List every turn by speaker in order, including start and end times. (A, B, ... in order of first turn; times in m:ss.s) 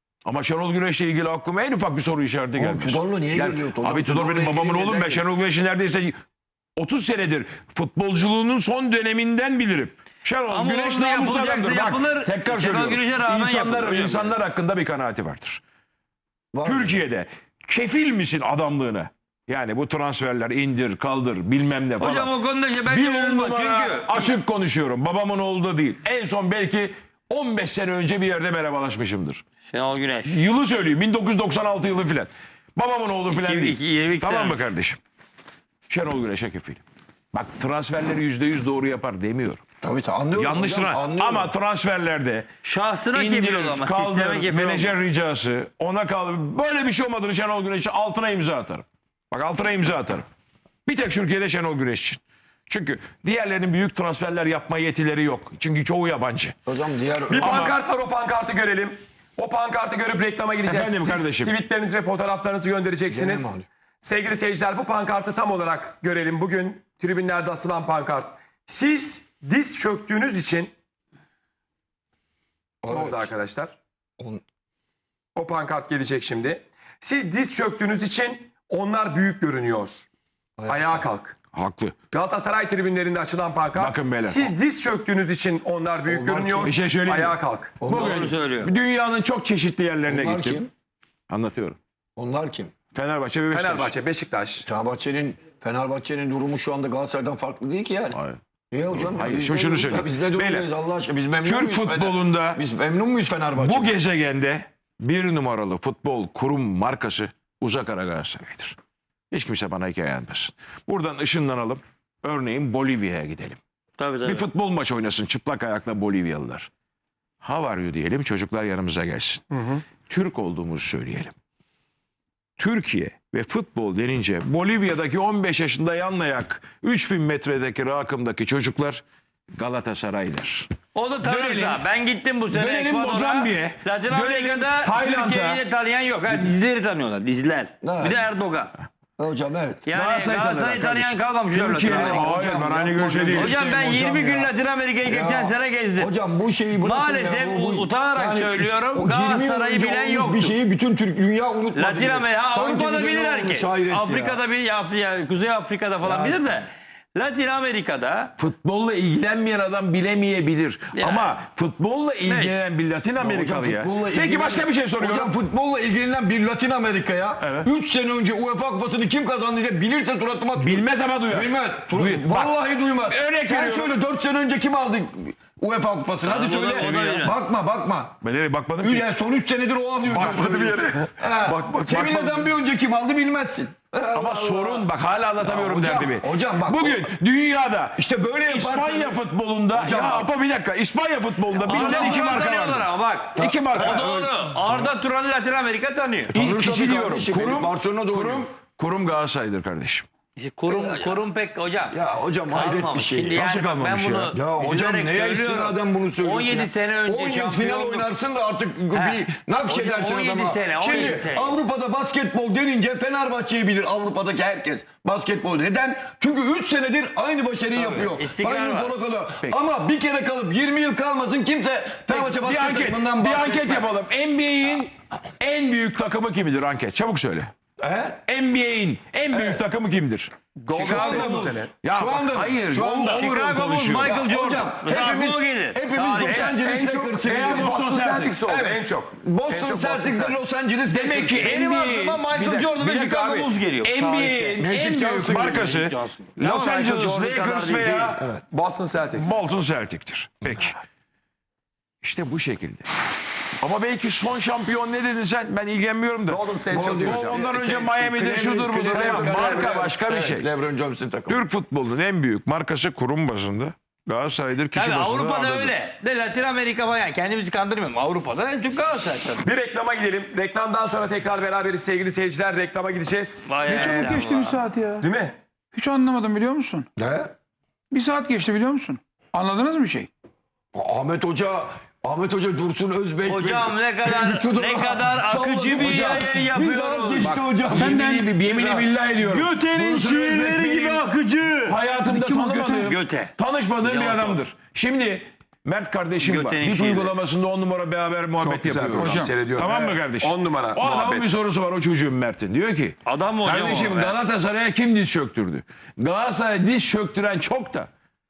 0:00.2-0:06.2 A
0:02.6-0:05.2 B
0:06.8-0:15.6 A
0:10.5-0:14.4 C
0:16.5-0:17.0 B
0:16.6-0:29.4 A
0:22.0-0:24.3 C
0:29.7-0:30.4 C
0:30.2-0:35.0 A
0:33.3-0:34.6 C
0:35.9-0:36.8 A
0:37.3-0:39.6 A
0:39.8-0:41.5 B
0:40.3-0:42.5 A
0:42.6-0:44.9 C
0:43.1-0:50.3 A
0:50.9-0:56.6 A
0:56.7-0:57.5 B
0:57.3-1:10.7 D
0:57.4-0:57.8 A
1:00.6-1:01.5 A
1:03.1-1:03.7 B
1:12.8-1:13.3 B
1:12.9-1:13.8 D
1:15.4-1:20.1 D
1:20.6-1:21.0 B
1:20.7-1:21.4 D
1:21.5-1:22.0 A
1:22.1-1:27.8 D
1:23.8-1:24.5 A
1:26.1-1:26.7 B
1:26.6-1:30.6 A
1:27.8-1:28.3 B
1:27.9-1:28.7 C
1:30.1-1:30.7 B
1:31.3-1:31.8 A
1:32.2-1:32.7 B
1:32.9-1:33.9 A
1:33.5-1:34.7 D
1:34.7-1:38.2 B
1:38.1-1:40.7 A
1:38.7-1:44.0 B
1:41.4-1:42.6 A
1:43.6-1:48.8 A
1:49.3-1:53.6 A
1:54.0-1:54.4 C
1:54.2-1:56.7 A
1:57.4-1:59.4 A
1:59.5-1:59.8 D
2:00.1-2:01.3 A
2:02.6-2:09.0 A
2:09.6-2:10.7 A
2:11.0-2:18.7 C
2:11.2-2:11.8 A
2:12.5-2:15.6 A
2:17.8-2:18.3 B
2:19.2-2:19.8 B
2:19.9-2:22.2 C
2:19.9-2:23.6 A
2:21.8-2:24.5 B
2:23.3-2:26.1 C
2:25.0-2:34.4 B
2:26.8-2:30.6 C
2:31.8-2:38.3 C
2:36.0-2:36.4 B
2:38.4-2:45.3 A
2:41.0-2:41.4 C
2:42.3-2:42.7 C
2:43.2-2:58.2 B
2:47.4-2:47.7 A
2:50.6-2:54.0 A
2:56.2-2:57.6 C
2:58.2-2:59.1 A
2:58.8-3:04.9 B
3:00.1-3:02.4 D
3:02.0-3:02.3 A
3:04.1-3:14.9 A
3:05.4-3:07.1 B
3:08.0-3:09.2 B
3:09.7-3:10.3 B
3:11.6-3:12.2 B
3:11.6-3:16.3 C
3:13.4-3:14.2 B
3:16.3-3:18.4 B
3:16.3-3:20.1 A
3:20.4-3:22.0 C
3:20.7-3:21.2 B
3:21.9-3:23.4 B
3:22.5-3:28.1 C
3:23.3-3:24.4 A
3:24.3-3:43.9 B
3:28.9-3:31.6 C
3:37.7-3:39.0 C
3:42.1-3:47.5 A
3:47.8-3:48.2 B
3:48.2-3:54.3 A
3:50.6-3:51.7 D
3:50.9-3:53.2 B
3:53.0-3:56.6 C
3:54.0-3:57.8 B
3:56.2-4:00.4 D
3:57.2-3:58.4 A
3:58.4-4:01.6 B
4:00.9-4:08.3 A
4:01.4-4:04.6 C
4:01.5-4:02.7 D
4:04.6-4:05.9 B
4:05.9-4:08.2 C
4:08.5-4:09.4 D
4:09.2-4:10.8 A
4:12.0-4:12.9 A
4:13.6-4:20.5 A
4:16.3-4:17.5 D
4:16.7-4:21.4 B
4:18.9-4:19.9 D
4:21.3-4:25.7 A
4:24.7-4:29.5 C
4:29.4-4:34.2 D
4:33.5-4:34.6 C
4:33.7-4:35.1 E
4:35.0-4:35.4 D
4:35.7-4:36.9 E
4:37.0-4:37.3 B
4:37.9-4:40.1 E
4:40.7-4:48.0 B
4:43.3-4:47.6 C
4:47.6-4:48.4 E
4:47.6-4:51.1 A
4:48.5-4:51.8 C
4:51.6-5:07.9 A
4:52.1-4:52.8 E
4:52.6-4:53.3 C
4:53.8-4:54.4 C
4:56.2-4:57.2 C
4:58.4-5:01.3 D
4:59.0-4:59.4 E
5:03.1-5:04.3 C